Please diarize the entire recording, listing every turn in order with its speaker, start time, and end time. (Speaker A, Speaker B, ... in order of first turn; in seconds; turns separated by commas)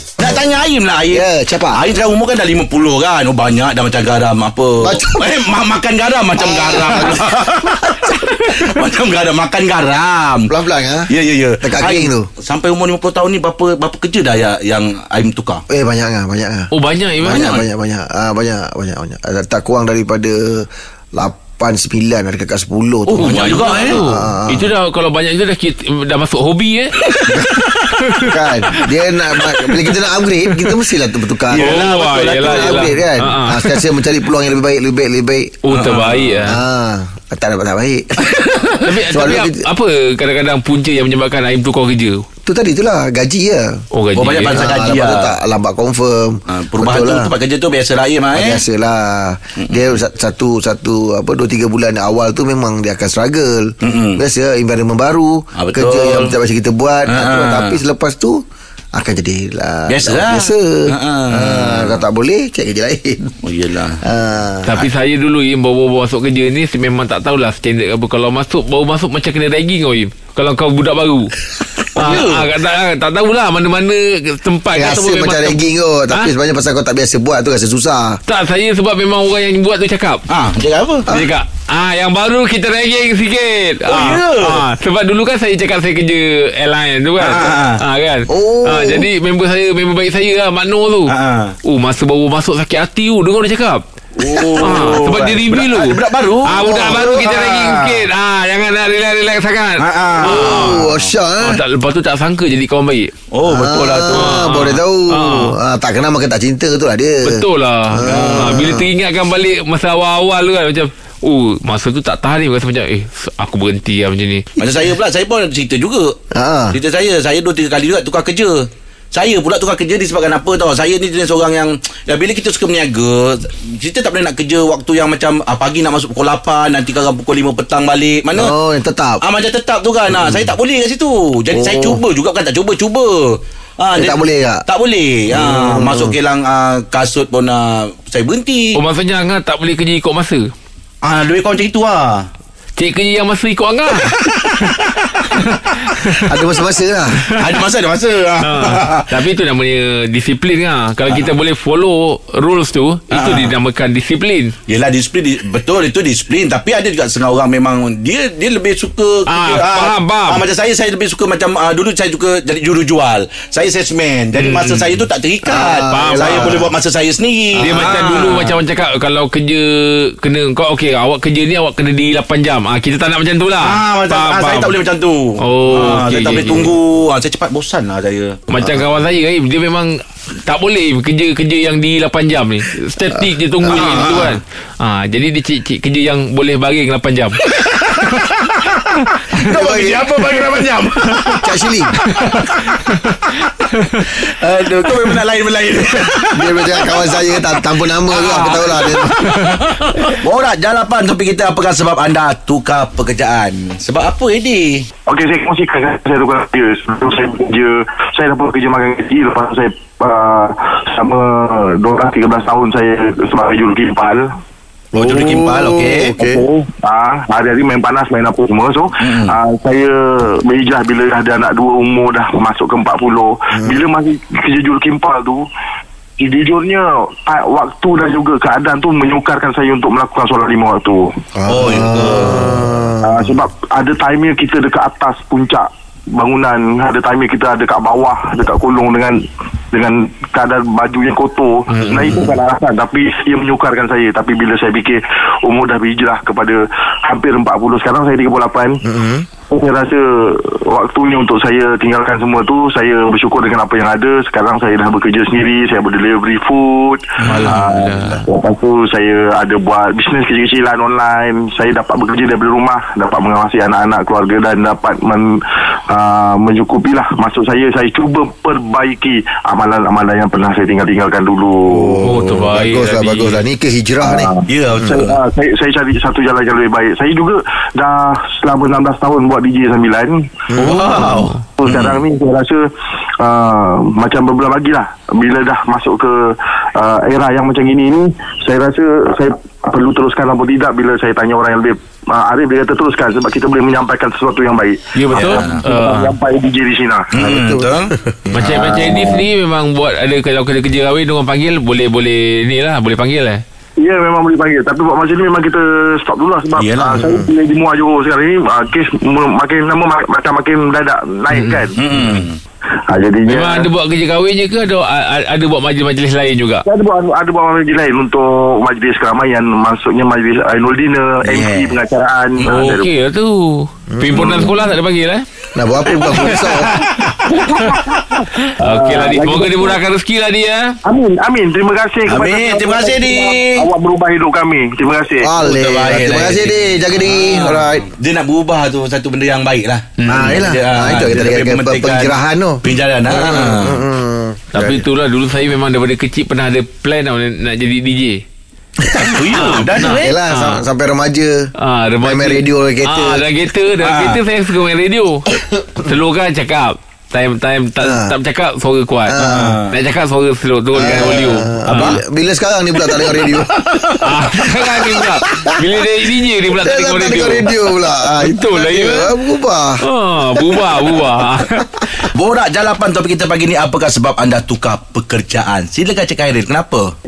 Speaker A: 0.2-10.5, Speaker B: 1.1-1.8, Speaker B: 4.8-5.3, Speaker B: 6.4-8.5, Speaker B: 10.5-12.3, Speaker A: 11.1-15.6, Speaker B: 15.7-24.7, Speaker C: 16.7-17.6, Speaker A: 17.3-17.6, Speaker C: 23.1-27.0, Speaker A: 23.2-24.0, Speaker A: 27.1-27.3, Speaker B: 27.3-27.6, Speaker C: 27.7-28.9, Speaker B: 28.3-31.8, Speaker A: 31.5-32.9, Speaker C: 31.5-33.8, Speaker B: 32.4-35.6, Speaker C: 35.6-36.6, Speaker A: 35.7-36.5, Speaker B: 36.4-38.3, Speaker A: 38.3-38.7, Speaker C: 38.8-42.2, Speaker B: 39.0-39.6, Speaker B: 42.4-43.8, Speaker C: 43.9-44.7, Speaker A: 44.1-45.3, Speaker B: 44.5-47.3, Speaker A: 46.5-48.6, Speaker B: 48.3-58.4, Speaker A: 49.6-49.9, Speaker A: 53.8-54.2, Speaker A: 55.5-56.3, Speaker A: 57.1-57.8, Speaker B: 58.9-63.3, Speaker A: 59.9-62.0, Speaker A: 63.4-64.0, Speaker B: 64.0-64.7, Speaker C: 64.7-71.4, Speaker C: 71.9-76.3, Speaker A: 71.9-72.5, Speaker B: 74.7-78.2, Speaker C: 78.3-80.2, Speaker A: 80.3-81.1, Speaker C: 81.1-91.1, Speaker A: 83.8-84.7, Speaker A: 87.2-87.8, Speaker B: 88.3-89.1, Speaker A: 91.1-91.5, Speaker C: 91.6-93.8, Speaker A: 94.2-98.1, Speaker C: 94.5-100.8, Speaker A: 99.8-101.1, Speaker B: 100.2-101.6, Speaker C: 101.4-103.1, Speaker A: 103.3-104.4, Speaker B: 103.4-108.8, Speaker C: 104.0-105.6, Speaker C: 107.2-114.5, Speaker A: 108.0-108.7, Speaker A: 114.6-116.2, Speaker B: 116.3-116.8, Speaker A: 116.7-128.5, Speaker B: 128.3-129.2, Speaker A: 129.2-138.8, Speaker B: 130.1-130.5, Speaker B: 131.5-132.0, Speaker B: 133.9-134.6, Speaker B: 135.3-136.1, Speaker C: 138.8-140.5, Speaker A: 141.0-142.3, Speaker C: 142.8-146.6, Speaker A: 144.1-144.3, Speaker B: 146.0-147.2, Speaker C: 147.1-147.4, Speaker A: 147.4-149.1, Speaker C: 148.4-154.5, Speaker A: 153.1-153.5, Speaker A: 154.7-168.5, Speaker C: 159.3-160.4, Speaker C: 164.3-165.0, Speaker B: 165.4-166.7, Speaker C: 165.9-166.6, Speaker B: 167.6-168.0, Speaker C: 167.6-174.7, Speaker A: 173.6-178.4, Speaker C: 175.4-176.7, Speaker C: 178.5-187.4, Speaker B: 183.6-184.3, Speaker A: 183.7-184.4, Speaker A: 187.4-188.5, Speaker A: 189.3-191.6, Speaker B: 189.4-190.2, Speaker B: 191.4-191.9, Speaker C: 192.1-193.0, Speaker A: 194.0-204.9, Speaker B: 196.3-199.3, Speaker C: 199.1-200.1, Speaker D: 205.1-214.2, Speaker A: 214.9-216.1, Speaker B: 214.9-216.4, Speaker D: 216.2-225.4, Speaker A: 219.0-219.4, Speaker B: 223.5-223.8, Speaker D: 226.2-231.1, Speaker B: 231.4-233.3, Speaker A: 231.5-232.7, Speaker D: 233.0-239.2, Speaker D: 239.7-248.8, Speaker C: 241.8-242.2, Speaker B: 248.8-249.3, Speaker D: 249.5-265.4, Speaker A: 257.2-257.6, Speaker C: 257.2-258.2, Speaker B: 257.3-258.2, Speaker D: 265.9-272.0, Speaker B: 271.7-275.0, Speaker C: 272.0-273.4, Speaker D: 274.0-280.3, Speaker A: 274.5-275.2, Speaker B: 280.5-280.8, Speaker A: 280.6-282.0, Speaker C: 280.6-281.4, Speaker D: 281.6-282.6, Speaker D: 283.2-297.1, Speaker C: 294.9-296.1, Speaker A: 295.1-295.6, Speaker A: 297.1-297.9, Speaker B: 297.2-299.0, Speaker C: 298.3-303.4, Speaker D: 303.8-311.8, Speaker A: 306.6-307.0, Speaker B: 307.0-307.3, Speaker C: 311.3-312.2, Speaker A: 311.8-312.4, Speaker D: 312.9-313.7, Speaker C: 313.3-316.6, Speaker D: 316.7-322.9, Speaker A: 321.2-321.8, Speaker C: 322.4-325.2, Speaker B: 323.9-324.5, Speaker B: 325.5-326.8, Speaker C: 326.0-330.8, Speaker A: 326.9-328.0, Speaker D: 328.7-329.8, Speaker D: 330.8-335.3, Speaker A: 332.1-333.7, Speaker B: 335.2-337.9, Speaker A: 335.4-343.8, Speaker C: 340.0-340.4, Speaker B: 340.1-344.8, Speaker C: 344.5-348.2, Speaker B: 348.9-349.2, Speaker A: 349.0-350.1, Speaker C: 349.3-350.6, Speaker B: 349.8-353.3, Speaker C: 351.6-362.0, Speaker A: 353.8-354.2, Speaker B: 357.8-358.1, Speaker B: 359.1-359.6, Speaker A: 359.2-359.8, Speaker B: 360.7-363.6, Speaker A: 361.0-362.0, Speaker A: 363.3-364.0, Speaker C: 364.0-369.1, Speaker B: 364.6-365.5, Speaker B: 366.5-370.8, Speaker C: 369.8-371.8, Speaker A: 372.1-376.9